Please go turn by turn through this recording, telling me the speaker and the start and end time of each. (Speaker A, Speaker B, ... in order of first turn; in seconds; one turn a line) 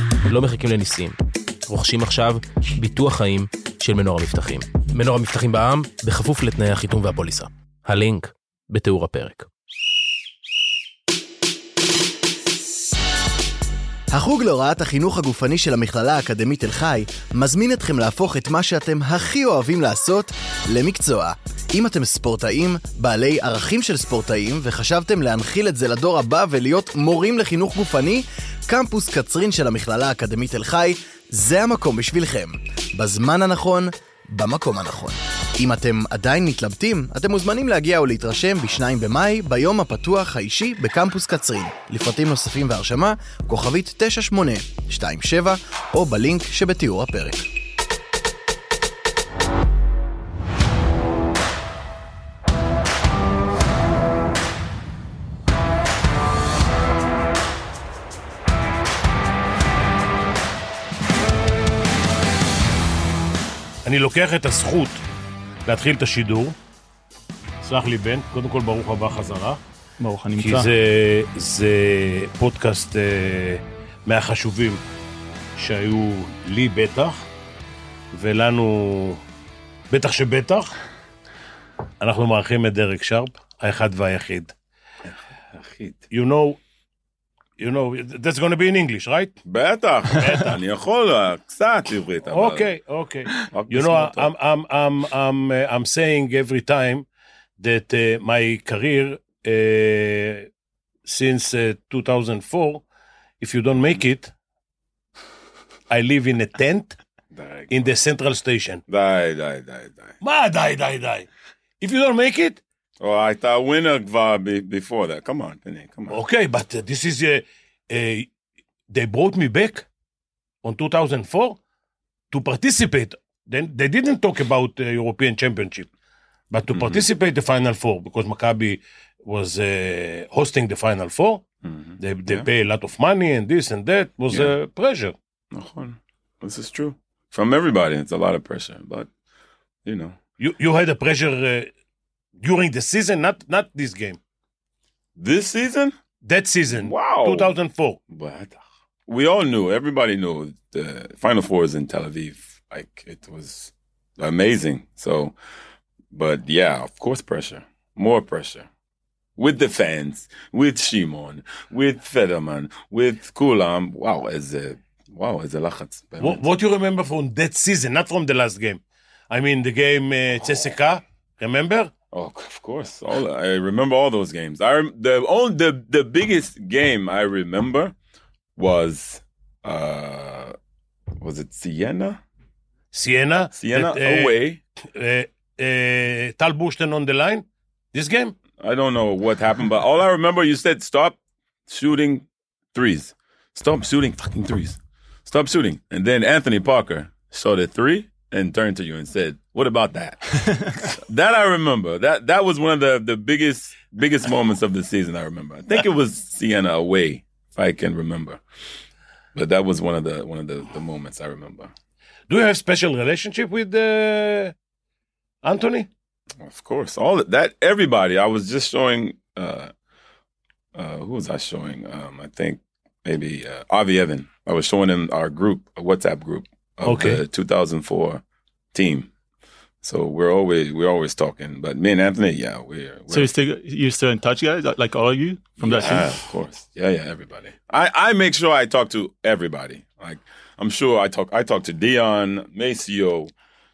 Speaker A: 0.2-1.1
Speaker A: 1.7-9.5
Speaker B: 14.1-47.4
Speaker C: 63.8-65.0
Speaker C: 65.7-66.5
Speaker C: 67.6-69.6
Speaker D: 70.0-70.7
Speaker C: 70.4-74.8
Speaker C: 75.6-77.3
Speaker C: 78.1-79.2
Speaker C: 79.9-80.7
Speaker C: 82.0-84.5
Speaker E: 85.1-86.0
Speaker C: 86.1-86.6
Speaker C: 87.6-89.4
Speaker E: 89.4-92.7
Speaker C: 90.1-90.6
Speaker C: 92.2-97.0
Speaker E: 93.5-94.3
Speaker C: 97.6-100.5
Speaker C: 101.0-102.8
Speaker C: 103.4-104.3
Speaker C: 105.9-107.0
Speaker E: 107.3-107.9
Speaker C: 107.7-108.8
Speaker E: 108.9-110.2
Speaker C: 110.2-111.3
Speaker C: 111.8-112.6
Speaker E: 113.0-116.2
Speaker C: 116.1-118.3
Speaker C: 118.9-119.9
Speaker C: 120.6-121.6
Speaker C: 122.3-125.9
Speaker C: 126.5-131.4
Speaker E: 126.7-127.0
Speaker E: 131.6-132.5
Speaker C: 132.0-135.1
Speaker E: 135.5-139.1
Speaker E: 139.8-140.2
Speaker C: 140.4-141.7
Speaker C: 142.4-144.2
Speaker E: 145.2-145.9
Speaker C: 146.2-148.0
Speaker E: 146.7-147.5
Speaker E: 148.1-155.3
Speaker E: 156.1-158.7
Speaker E: 159.4-166.4
Speaker C: 166.2-171.9
Speaker E: 172.1-177.9
Speaker E: 178.6-180.5
Speaker E: 181.2-182.2
Speaker C: 182.9-184.3
Speaker E: 183.5-184.6
Speaker C: 184.8-188.3
Speaker E: 188.6-208.4
Speaker E: 209.3-211.7
Speaker C: 212.3-214.5
Speaker C: 215.4-215.9
Speaker E: 216.4-219.7
Speaker E: 220.7-228.2
Speaker C: 226.8-227.2
Speaker E: 228.7-229.1
Speaker E: 229.8-233.3
Speaker D: 233.1-236.1
Speaker E: 235.6-243.3